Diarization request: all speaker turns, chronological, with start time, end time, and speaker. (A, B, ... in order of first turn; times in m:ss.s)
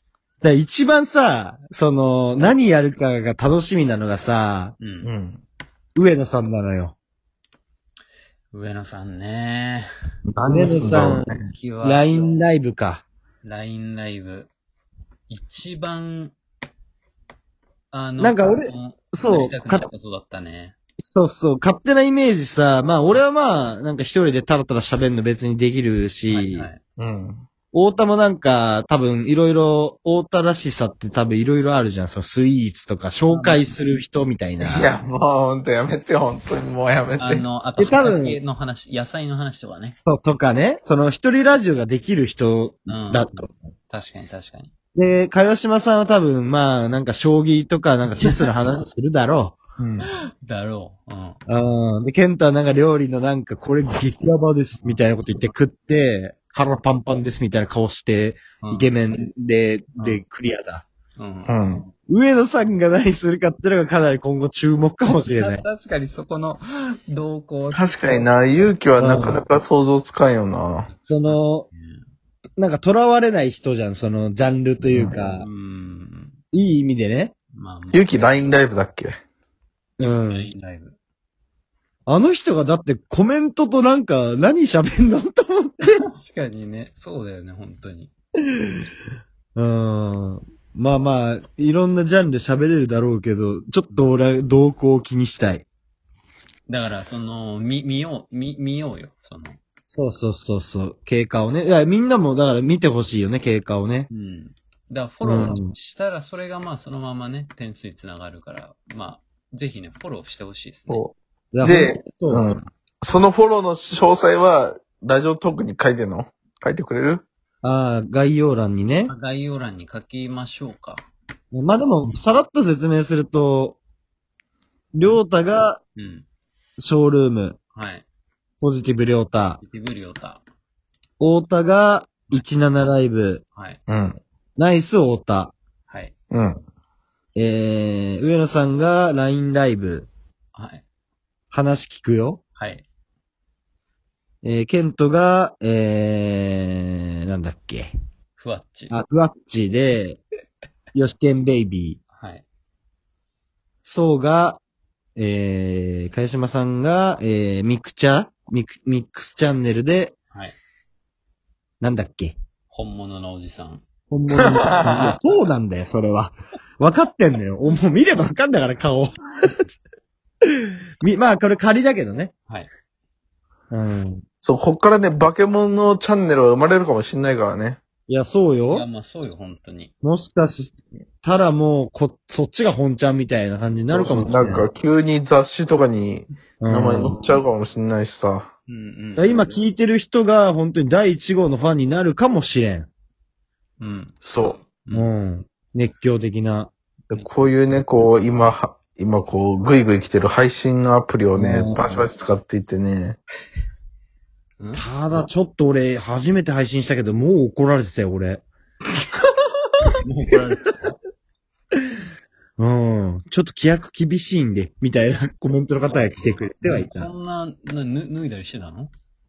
0:00.4-0:04.7 A
0:04.8-0:05.1 B
0:05.0-0:05.4 C
0:06.0-0:06.9 A
0:08.5-0:09.9 B
0:10.4-0:13.0 A
0:10.4-0:11.5 C
0:10.8-0:12.4 B
0:13.4-0:14.5 B
0:15.3-0:16.3 B
0:17.9-0:20.8 B
0:18.2-0:19.9 A
0:21.1-0:26.7 A
0:26.3-0:26.8 B
0:27.0-0:27.4 C
0:27.7-0:34.9 A
0:33.3-0:33.7 B
0:34.6-0:37.4 C
0:37.2-0:40.0 B
0:37.8-0:38.4 A
0:40.0-0:43.5 A
0:42.9-0:44.7 B
0:44.9-0:49.6 A
0:49.8-0:50.1 C
0:50.1-0:51.4 B
0:51.5-1:00.8 A
0:58.6-0:58.9 B
1:01.2-1:01.9 B
1:01.5-1:01.8 C
1:02.1-1:05.6 A
1:05.0-1:08.3 B
1:07.7-1:10.9 C
1:09.0-1:09.4 A
1:10.9-1:12.0 B
1:11.0-1:11.7 A
1:12.6-1:15.5 A
1:15.1-1:16.4 B
1:16.5-1:17.3 A
1:17.5-1:18.6 B
1:17.9-1:19.1 C
1:20.0-1:20.5 A
1:20.3-1:21.0 B
1:22.1-1:26.0 A
1:26.1-1:28.1 B
1:29.6-1:35.6 A
1:36.7-1:39.6 B
1:39.9-1:44.1 A
1:44.1-1:51.0 B
1:45.2-1:45.7 A
1:50.9-1:57.2 C
1:51.5-1:52.4 A
1:57.6-1:59.1 A
1:59.1-2:01.0 B
2:01.5-2:03.8 A
2:04.9-2:05.8 A
2:06.0-2:06.2 B
2:06.8-2:07.6 A
2:07.7-2:08.0 B
2:08.6-2:09.6 A
2:09.6-2:10.4 B
2:11.2-2:13.4 A
2:13.5-2:13.8 B
2:13.9-2:14.2 C
2:14.6-2:15.5 A
2:15.9-2:16.1 B
2:16.3-2:16.6 C
2:17.3-2:20.1 A
2:20.5-2:20.8 B
2:21.5-2:22.4 A
2:22.6-2:22.8 B
2:24.4-2:27.9 A
2:28.4-2:28.9 B
2:28.9-2:30.2 A
2:30.9-2:32.0 A
2:32.1-2:32.4 B
2:33.8-2:34.6 A
2:35.2-2:40.1 A
2:40.3-2:40.6 B
2:41.8-2:42.4 A
2:42.7-2:43.8 B
2:44.1-2:49.5 A
2:44.4-2:45.1 C
2:51.0-2:52.3 A
2:53.7-2:54.2 A
2:54.4-2:57.8 C
2:58.1-2:58.8 A
2:58.7-2:59.9 B
3:00.0-3:04.7 A
3:03.9-3:08.5 C
3:06.6-3:07.2 A
3:08.7-3:09.6 B
3:09.2-3:12.9 A
3:13.8-3:14.1 B
3:14.2-3:14.6 C
3:14.9-3:16.7 A
3:17.1-3:23.2 C
3:21.4-3:21.8 A
3:24.6-3:24.8 B
3:24.7-3:28.4 A
3:30.0-3:30.9 B
3:32.6-3:37.1 A
3:35.9-3:38.9 B